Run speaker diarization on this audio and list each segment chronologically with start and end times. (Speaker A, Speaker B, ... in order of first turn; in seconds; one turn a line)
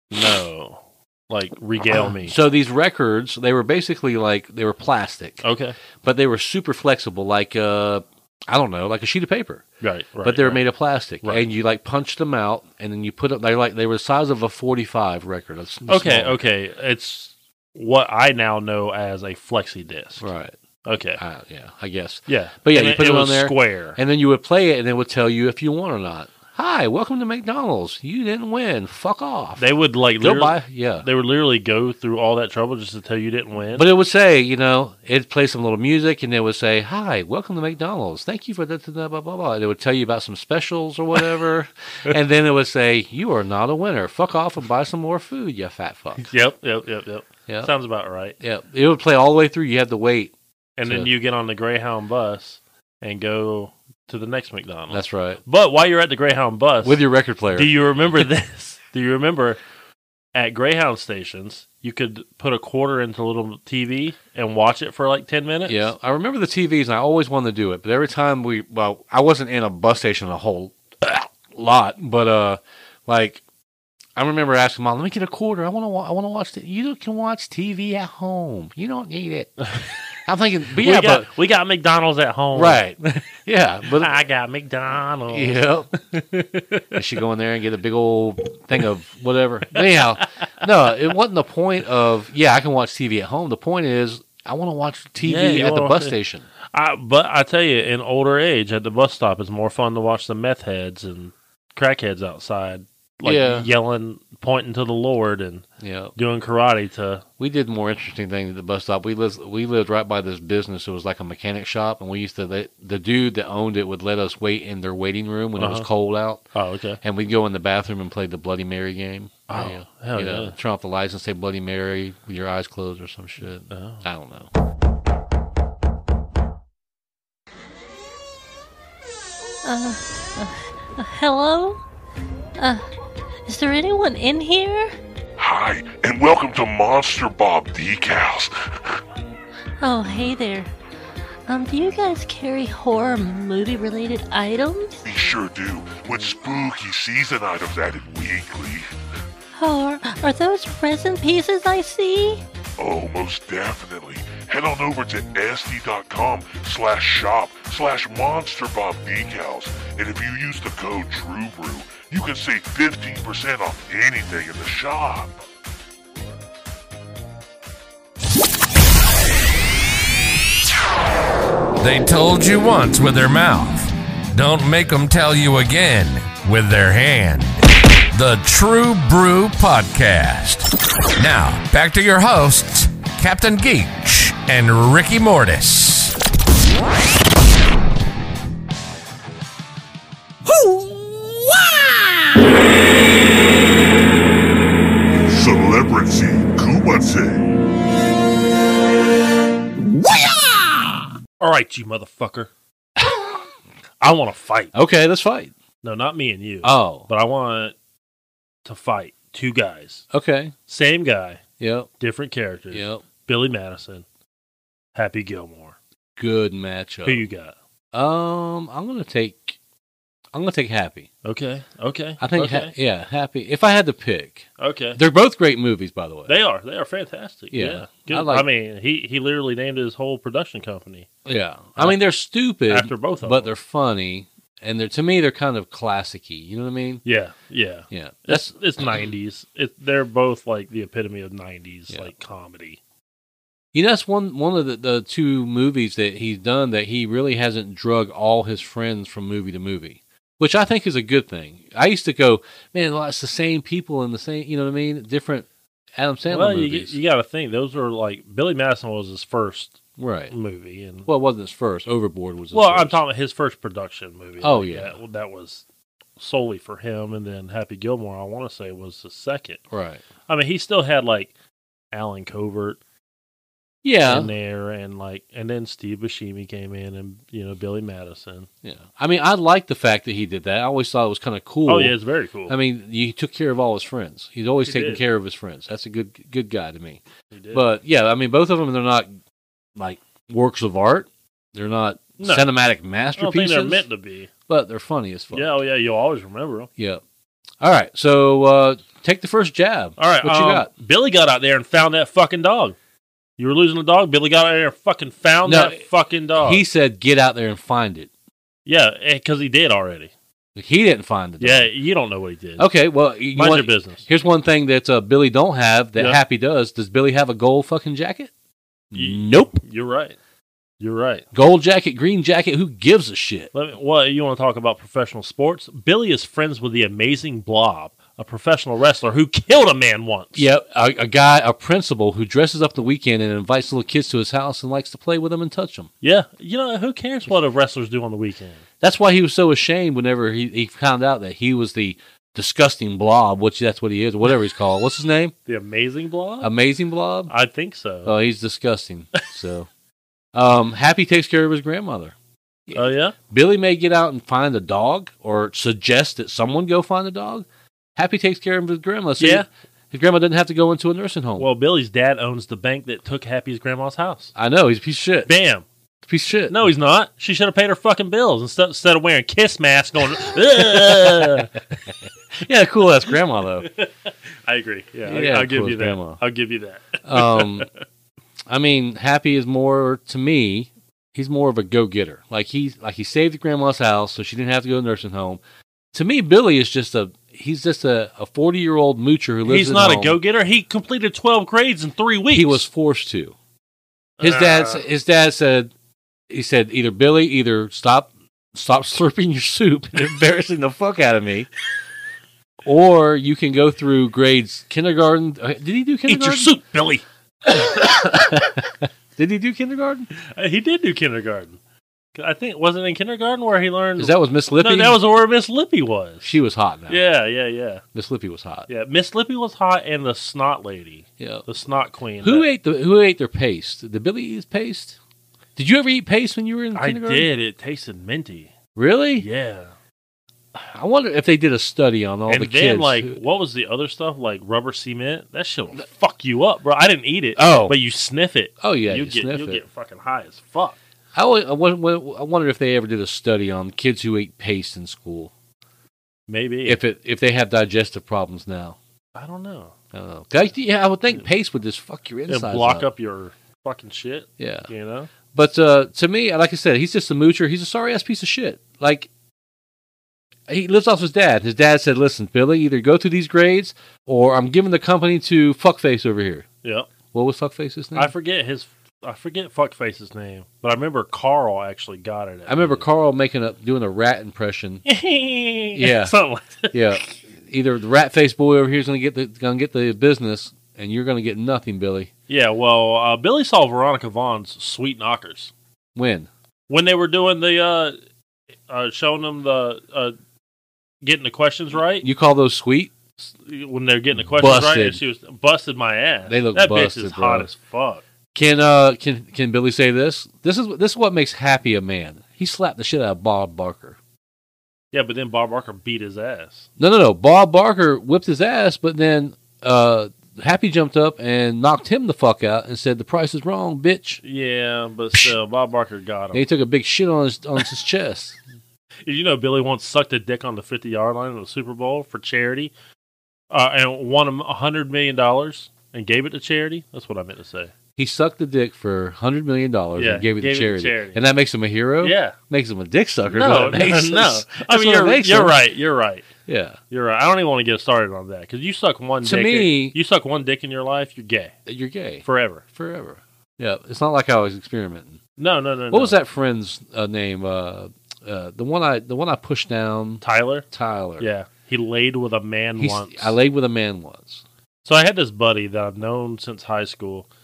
Speaker A: 0.1-2.4
Speaker B: 1.9-5.4
Speaker A: 5.4-5.8
Speaker B: 6.0-9.6
Speaker A: 9.8-10.6
Speaker B: 10.2-16.4
Speaker A: 15.9-20.3
Speaker B: 20.2-20.6
Speaker A: 20.8-21.2
Speaker B: 21.2-29.7
Speaker A: 22.3-24.0
Speaker A: 29.6-33.9
Speaker B: 30.2-31.1
Speaker B: 33.8-46.3
Speaker A: 46.2-48.4
Speaker B: 48.4-50.3
Speaker A: 50.8-59.6
Speaker B: 54.9-55.4
Speaker B: 56.8-57.7
Speaker A: 60.3-65.9
Speaker B: 65.7-73.4
Speaker B: 74.2-79.7
Speaker B: 80.2-81.3
Speaker A: 80.8-83.3
Speaker B: 82.5-84.1
Speaker A: 83.9-86.9
Speaker B: 85.3-85.9
Speaker B: 86.9-96.5
Speaker A: 89.8-90.2
Speaker A: 95.2-96.2
Speaker A: 96.7-105.6
Speaker B: 103.2-103.7
Speaker B: 105.8-106.1
Speaker A: 106.2-107.2
Speaker B: 107.4-116.4
Speaker A: 115.6-115.9
Speaker A: 116.5-117.0
Speaker B: 117.0-124.5
Speaker A: 119.5-120.5
Speaker A: 123.7-124.0
Speaker C: 129.6-131.8
Speaker C: 132.6-132.8
Speaker C: 133.4-134.9
Speaker D: 135.4-138.5
Speaker C: 139.8-140.7
Speaker C: 141.5-145.0
Speaker D: 145.0-148.9
Speaker C: 149.5-152.4
Speaker D: 152.8-165.4
Speaker E: 171.8-186.2
Speaker E: 190.6-190.9
Speaker D: 195.3-197.5
Speaker A: 201.4-202.5
Speaker A: 204.0-204.7
Speaker B: 204.7-205.5
Speaker A: 205.8-207.7
Speaker B: 206.6-207.1
Speaker A: 208.6-210.0
Speaker B: 210.1-210.5
Speaker A: 210.7-211.4
Speaker B: 211.6-211.9
Speaker A: 212.0-214.0
Speaker B: 212.7-213.0
Speaker A: 214.9-215.8
Speaker B: 216.2-217.2
Speaker A: 217.0-217.5
Speaker B: 217.9-219.6
Speaker B: 220.3-221.1
Speaker A: 221.2-222.7
Speaker B: 222.2-226.3
Speaker A: 224.6-225.0
Speaker A: 226.3-231.1
Speaker B: 227.5-228.4
Speaker B: 231.2-237.0
Speaker A: 232.7-233.5
Speaker A: 237.0-242.8
Speaker B: 237.9-238.5
Speaker B: 243.7-256.9
Speaker A: 256.3-259.8
Speaker B: 260.0-260.3
Speaker A: 260.3-261.1
Speaker B: 261.1-263.0
Speaker A: 262.5-265.6
Speaker B: 264.4-264.9
Speaker A: 266.2-269.6
Speaker B: 269.7-270.0
Speaker A: 270.3-271.3
Speaker A: 271.9-272.8
Speaker B: 273.8-274.3
Speaker A: 274.0-278.5
Speaker B: 278.6-281.9
Speaker A: 281.6-282.6
Speaker B: 282.5-287.0
Speaker A: 284.6-285.0
Speaker A: 287.3-287.6
Speaker B: 287.5-289.1
Speaker B: 289.8-293.9
Speaker A: 292.2-292.5
Speaker A: 293.2-294.3
Speaker B: 294.5-295.5
Speaker A: 295.3-296.7
Speaker B: 296.8-297.0
Speaker B: 297.6-300.7
Speaker A: 300.0-302.8
Speaker A: 303.4-306.6
Speaker B: 305.4-305.8
Speaker B: 306.4-308.1
Speaker A: 308.6-310.1
Speaker B: 310.5-311.7
Speaker A: 311.4-312.7
Speaker B: 312.6-318.3
Speaker A: 313.3-314.0
Speaker B: 318.9-319.6
Speaker A: 318.9-320.2
Speaker A: 320.8-321.2
Speaker B: 321.3-323.5
Speaker A: 323.5-330.5
Speaker B: 330.3-335.9
Speaker A: 336.0-338.6
Speaker B: 338.8-345.3
Speaker A: 345.5-346.5
Speaker B: 346.4-347.3
Speaker A: 347.3-348.1
Speaker B: 348.0-349.7
Speaker B: 350.3-352.1
Speaker B: 352.7-361.5
Speaker A: 352.7-353.1
Speaker A: 359.2-359.4
Speaker A: 361.4-364.3
Speaker B: 364.4-365.3
Speaker A: 365.3-365.6
Speaker B: 366.1-366.7
Speaker A: 366.5-371.6
Speaker B: 370.6-371.5
Speaker B: 372.4-373.7
Speaker A: 374.4-377.7
Speaker B: 375.1-376.2
Speaker B: 377.0-377.7
Speaker B: 378.5-385.4
Speaker B: 385.9-390.2
Speaker A: 389.4-392.6
Speaker B: 392.3-393.3
Speaker A: 394.2-394.9
Speaker B: 394.2-395.7
Speaker B: 396.3-401.5
Speaker B: 402.6-406.5
Speaker A: 406.1-407.0
Speaker B: 407.4-410.1
Speaker A: 410.3-411.6
Speaker A: 412.1-416.4
Speaker B: 414.0-415.0
Speaker B: 416.2-417.0
Speaker A: 416.9-417.8
Speaker B: 417.9-418.7
Speaker A: 418.7-422.5
Speaker B: 421.2-421.4
Speaker B: 422.2-425.0
Speaker B: 425.6-427.3
Speaker A: 426.7-428.5
Speaker B: 428.8-429.2
Speaker A: 429.2-429.7
Speaker B: 430.5-433.2
Speaker A: 432.3-440.8
Speaker B: 437.4-437.8
Speaker B: 438.6-439.6
Speaker B: 441.1-445.3
Speaker A: 446.3-446.8
Speaker B: 446.6-448.8
Speaker A: 449.1-449.7
Speaker B: 449.9-452.9
Speaker A: 452.3-455.1
Speaker B: 454.4-454.7
Speaker B: 455.3-459.1
Speaker B: 460.5-466.4
Speaker B: 467.1-468.1
Speaker A: 467.9-472.9
Speaker B: 472.5-474.8
Speaker A: 474.8-477.1
Speaker B: 475.7-476.1
Speaker B: 476.7-482.1
Speaker A: 482.3-485.5
Speaker B: 485.9-486.3
Speaker A: 486.7-487.9
Speaker A: 488.7-490.1
Speaker A: 491.0-492.1
Speaker B: 492.0-492.9
Speaker A: 493.2-498.0
Speaker B: 494.4-495.0
Speaker B: 496.3-497.5
Speaker B: 498.3-504.0
Speaker A: 504.9-506.7
Speaker B: 506.8-514.2
Speaker A: 514.2-516.4
Speaker B: 516.3-518.4
Speaker A: 519.0-522.7
Speaker A: 523.5-527.7
Speaker B: 528.0-535.6
Speaker A: 530.0-531.2
Speaker A: 532.0-532.4
Speaker A: 533.3-536.3
Speaker B: 536.5-536.8
Speaker A: 536.9-541.5
Speaker B: 539.2-540.0
Speaker B: 541.6-545.2
Speaker A: 542.2-542.6
Speaker A: 545.4-546.2
Speaker B: 545.9-551.3
Speaker A: 550.2-550.6
Speaker A: 551.2-553.4
Speaker B: 552.8-554.4
Speaker A: 554.8-557.3